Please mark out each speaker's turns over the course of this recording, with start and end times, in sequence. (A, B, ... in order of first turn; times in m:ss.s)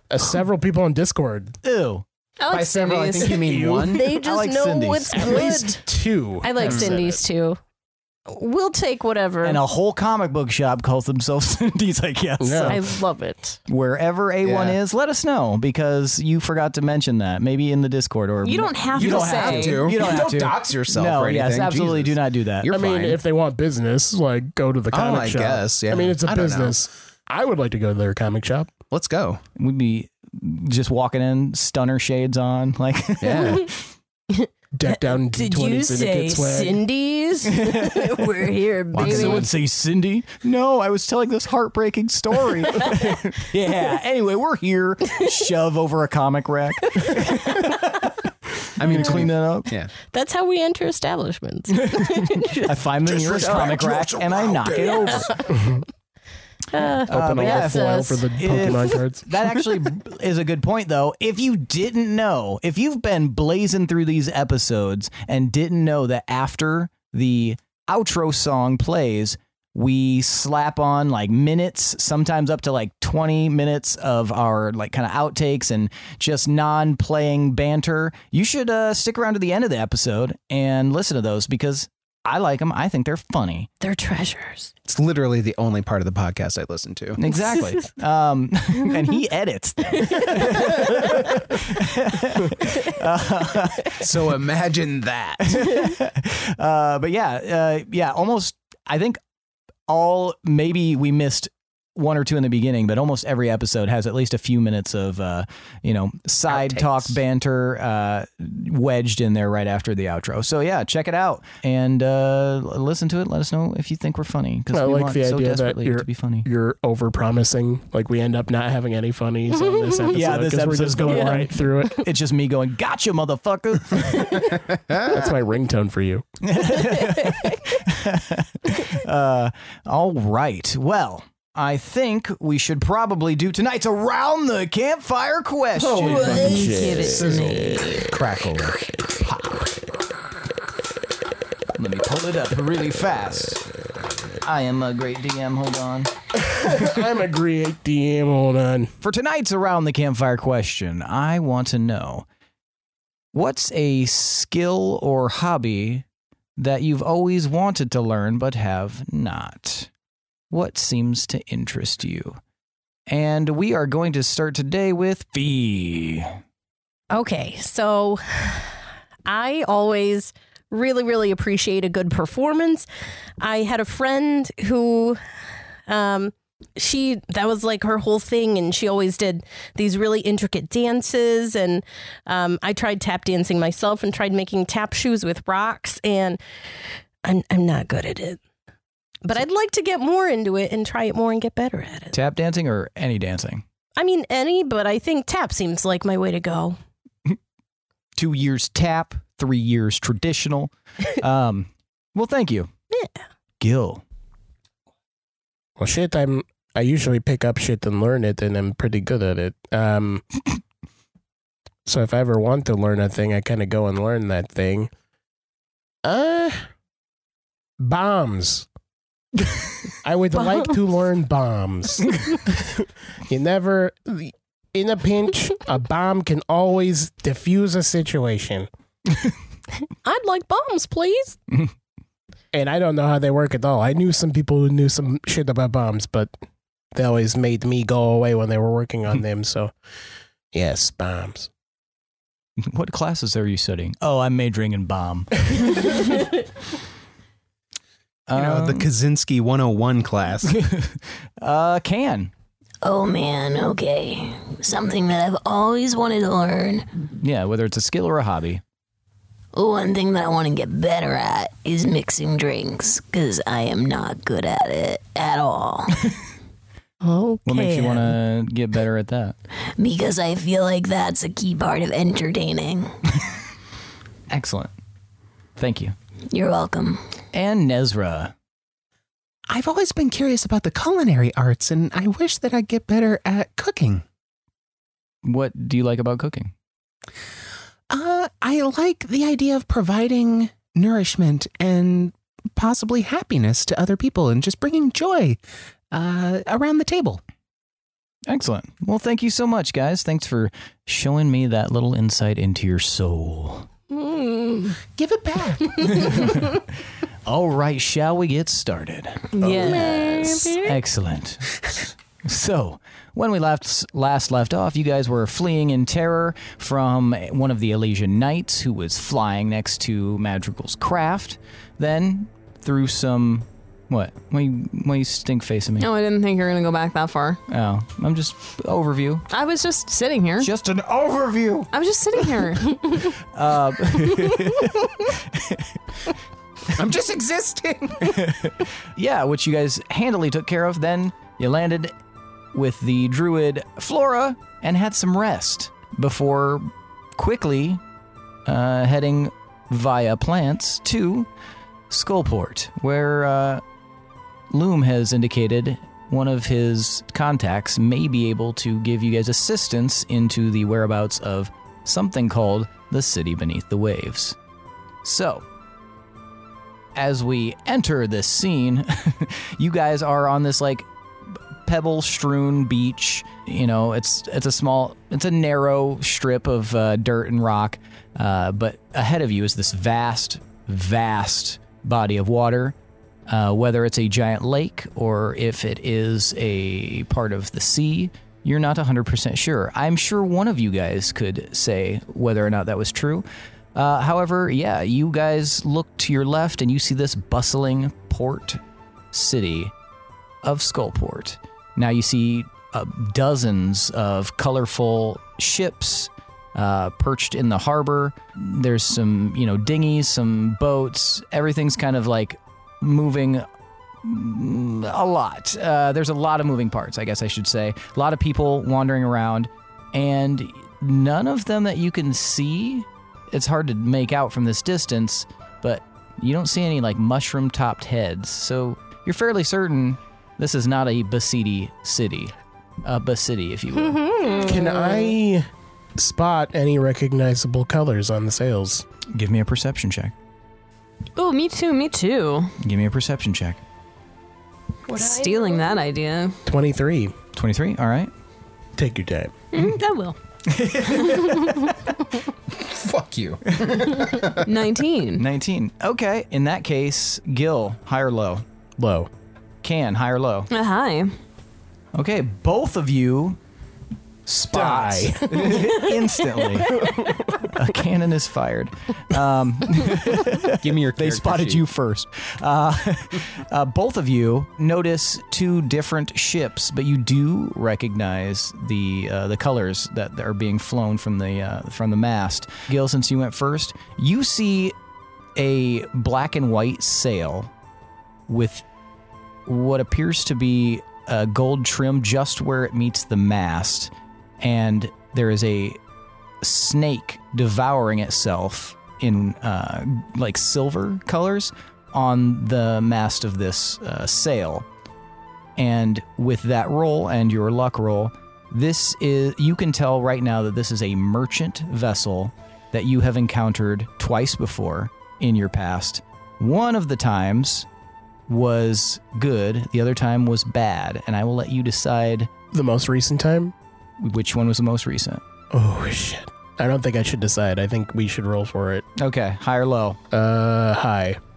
0:00.1-0:01.6 A
0:01.6-0:02.0 B
0:02.4-0:03.3 C
0:02.5-0:04.1 D
0:03.2-0:04.0 A
0:03.8-0:05.8 E
0:04.1-0:05.5 B
0:05.1-0:07.2 A
0:06.4-0:07.6 E
0:06.6-0:06.9 D
0:08.3-0:09.6 E
0:09.4-0:13.0 B
0:12.4-0:12.8 A
0:12.7-0:13.6 E
0:13.7-0:22.9 B
0:14.4-0:14.8 D
0:18.4-0:20.2 C
0:18.9-0:23.2 D
0:22.7-0:28.7 A
0:24.9-0:26.8 D
0:28.9-0:29.4 D
0:29.6-0:33.7 B
0:33.2-0:33.7 D
0:34.3-0:39.5 E
0:34.7-0:36.8 A
0:37.5-0:38.2 B
0:38.9-0:39.5 D
0:39.0-0:48.1 B
0:46.9-0:47.7 E
0:48.7-0:49.7 B
0:48.8-0:49.9 D
0:50.1-0:53.8 E
0:51.9-0:55.5 B
0:53.0-0:55.3 D
0:54.7-0:55.6 E
0:55.6-0:55.8 A
0:56.7-0:58.7 E
0:57.1-0:59.6 A
0:57.1-1:23.7 B
1:23.8-1:24.7 E
1:24.8-1:27.2 D
1:27.2-1:34.3 B
1:27.3-1:27.8 E
1:30.0-1:31.2 E
1:34.0-1:35.6 D
1:35.4-1:39.2 B
1:39.9-1:56.5 B
1:46.5-1:47.2 D
1:54.7-2:02.0 A
1:59.5-2:00.1 E
2:00.1-2:04.5 B
2:04.9-2:06.2 A
2:06.4-2:16.7 B
2:07.2-2:07.6 E
2:15.8-2:18.0 A
2:16.0-2:18.1 F
2:16.1-2:16.6 D
2:17.1-2:18.9 D
2:21.7-2:23.7 B
2:24.4-2:26.1 B
2:26.3-2:28.9 A
2:29.0-2:32.2 B
2:33.3-2:36.0 B
2:36.6-2:39.9 B
2:40.5-2:42.4 B
2:43.1-2:46.3 B
2:47.1-2:52.9 E
2:53.4-2:55.2 E
2:55.9-3:06.4 E
3:07.2-3:08.4 E
3:09.2-3:12.2 E
3:12.1-3:13.6 B
3:14.0-3:16.8 E
3:18.2-3:22.7 B
3:23.6-3:24.0 B
3:25.8-3:30.2 A
3:31.8-3:34.9 A
3:36.0-3:36.6 A
3:37.8-3:38.7 A
3:40.0-3:48.7 A
3:40.4-3:40.7 E
3:50.0-3:51.4 E
3:52.5-3:56.3 A
3:56.9-3:59.7 A
4:00.5-4:01.5 A
4:02.6-4:06.2 B
4:08.3-4:08.9 B
4:08.3-4:10.6 D
4:10.5-4:12.3 B
4:12.8-4:16.9 F
4:17.2-4:18.6 B
4:19.5-4:25.9 F
4:27.0-4:28.1 E
4:27.4-4:29.4 B
4:29.8-4:32.9 F
4:34.3-4:34.7 B
4:35.6-4:35.9 B
4:36.3-4:37.0 F
4:37.3-4:38.3 B
4:39.5-4:44.0 D
4:45.2-4:46.5 B
4:47.9-4:55.4 D
4:55.9-4:57.2 D
4:58.3-5:03.7 B
5:03.9-5:04.8 E
5:04.9-5:06.3 D
5:05.9-5:06.6 B
5:07.2-5:25.9 B
5:09.4-5:10.8 E
5:09.5-5:09.8 C
5:25.8-5:27.4 C
5:27.5-5:29.2 B
5:29.3-5:30.5 C
5:30.4-5:31.7 B
5:31.7-5:32.8 C
5:32.8-5:35.7 B
5:36.7-5:38.2 D
5:38.0-5:41.9 B
5:42.5-5:47.8 B
5:48.4-5:51.3 B
5:51.9-5:53.6 B
5:54.5-6:04.4 B
6:05.0-6:05.4 B
6:06.9-6:22.7 B
6:23.3-6:38.6 B
6:39.1-6:39.7 B
6:40.4-6:53.4 B
6:54.0-7:14.0 B
7:13.8-7:15.1 E
7:14.4-7:18.8 A
7:19.1-7:20.1 B
7:21.2-7:22.5 C
7:22.6-7:23.6 B
7:24.9-7:25.8 E
7:24.9-7:26.4 C
7:26.4-7:27.1 A
7:27.3-7:28.1 B
7:28.8-7:29.3 A
7:29.5-7:30.2 C
7:30.5-7:31.7 B
7:30.9-7:31.2 C
7:32.5-7:34.4 D
7:34.4-7:35.2 C
7:35.2-7:38.4 B
7:38.8-7:39.1 A
7:39.6-7:40.5 B
7:40.5-7:41.1 C
7:41.9-7:43.4 B
7:44.2-8:04.7 B
7:44.5-7:45.7 A
7:45.4-7:45.6 D
7:46.7-7:47.2 A
7:50.6-7:51.6 D
8:05.4-8:07.5 B
8:08.3-8:08.6 B
8:09.5-8:15.8 B
8:16.4-8:24.6 B
8:25.6-8:37.7 B
8:38.3-8:42.3 B
8:42.5-8:43.5 A
8:44.0-8:45.2 B
8:45.5-8:48.8 A
8:49.0-8:50.0 B
8:50.1-8:51.2 A